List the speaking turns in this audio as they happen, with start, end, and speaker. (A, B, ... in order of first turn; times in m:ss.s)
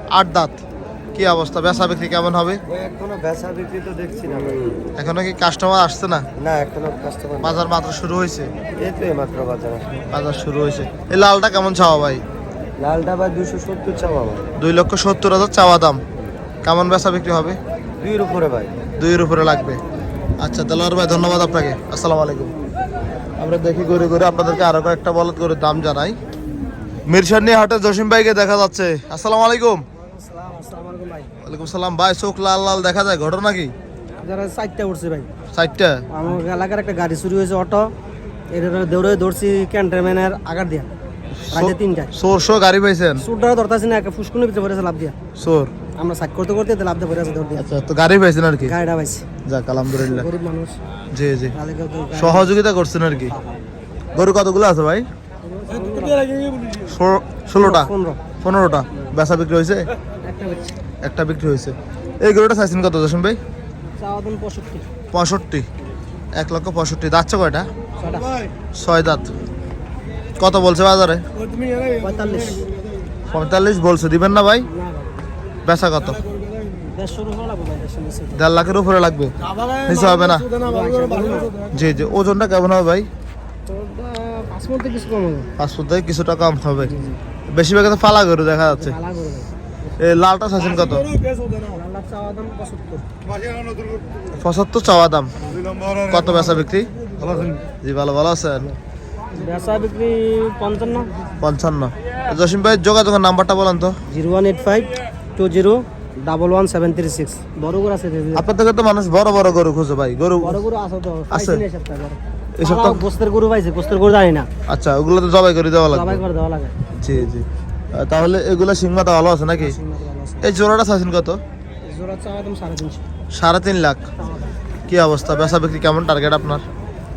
0:00.1-0:00.6 A
0:01.1-0:02.6 A
0:02.7-0:04.9 B
0:05.0-0:06.2 A
0:06.4-0:07.6 B
0:07.4-0:08.5 A
0:08.8-0:10.0 B
0:10.1-0:12.2 A
0:12.8-0:14.4 B
0:14.6-0:16.0 A
0:16.6-0:17.6 A
0:18.0-0:18.7 B
0:19.0-0:19.8 A
0:20.4-0:22.5 A
0:23.4-0:26.2 A
0:27.1-0:29.8 A
0:30.3-0:31.3 C
0:31.4-0:33.7 A
0:34.2-0:35.3 C
0:35.5-0:36.0 A
0:36.1-0:37.9 C
0:38.5-0:40.9 C
0:41.4-0:43.2 A
0:41.5-0:42.1 C
0:43.2-0:45.1 C
0:45.4-0:45.7 A
0:46.0-0:47.6 C
0:47.6-0:48.7 A
0:48.6-0:49.2 C
0:49.4-0:50.3 A
0:50.1-0:50.8 C
0:51.1-0:51.6 A
0:51.5-0:52.5 C
0:52.1-0:53.3 A
0:54.1-0:55.0 A
0:55.4-0:56.2 C
0:56.9-0:57.9 A
0:57.6-0:58.2 C
0:58.4-0:59.9 A
1:00.2-1:00.8 C
1:01.0-1:03.4 A
1:04.0-1:04.8 C
1:05.1-1:05.7 A
1:06.3-1:07.7 A
1:08.0-1:08.4 C
1:08.7-1:09.3 A
1:10.4-1:11.2 A
1:11.9-1:12.6 C
1:13.3-1:14.7 A
1:14.7-1:15.1 C
1:15.6-1:16.2 A
1:16.9-1:18.4 C
1:18.3-1:20.5 A
1:20.6-1:21.5 C
1:21.7-1:23.1 A
1:23.7-1:25.5 C
1:25.6-1:26.9 A
1:27.5-1:29.0 A
1:28.7-1:29.5 C
1:30.0-1:31.1 A
1:31.6-1:33.0 C
1:34.4-1:35.3 A
1:36.0-1:36.9 A
1:37.8-1:38.7 A
1:39.3-1:41.1 C
1:41.4-1:44.0 A
1:44.1-1:48.4 C
1:48.3-1:50.6 A
1:50.4-1:54.5 C
1:51.3-1:51.6 A
1:52.6-1:53.0 A
1:54.7-1:56.2 A
1:55.9-1:56.7 C
1:57.0-1:59.8 A
1:59.6-2:00.4 C
2:00.4-2:01.4 A
2:01.8-2:03.0 C
2:03.3-2:04.0 A
2:04.9-2:06.6 A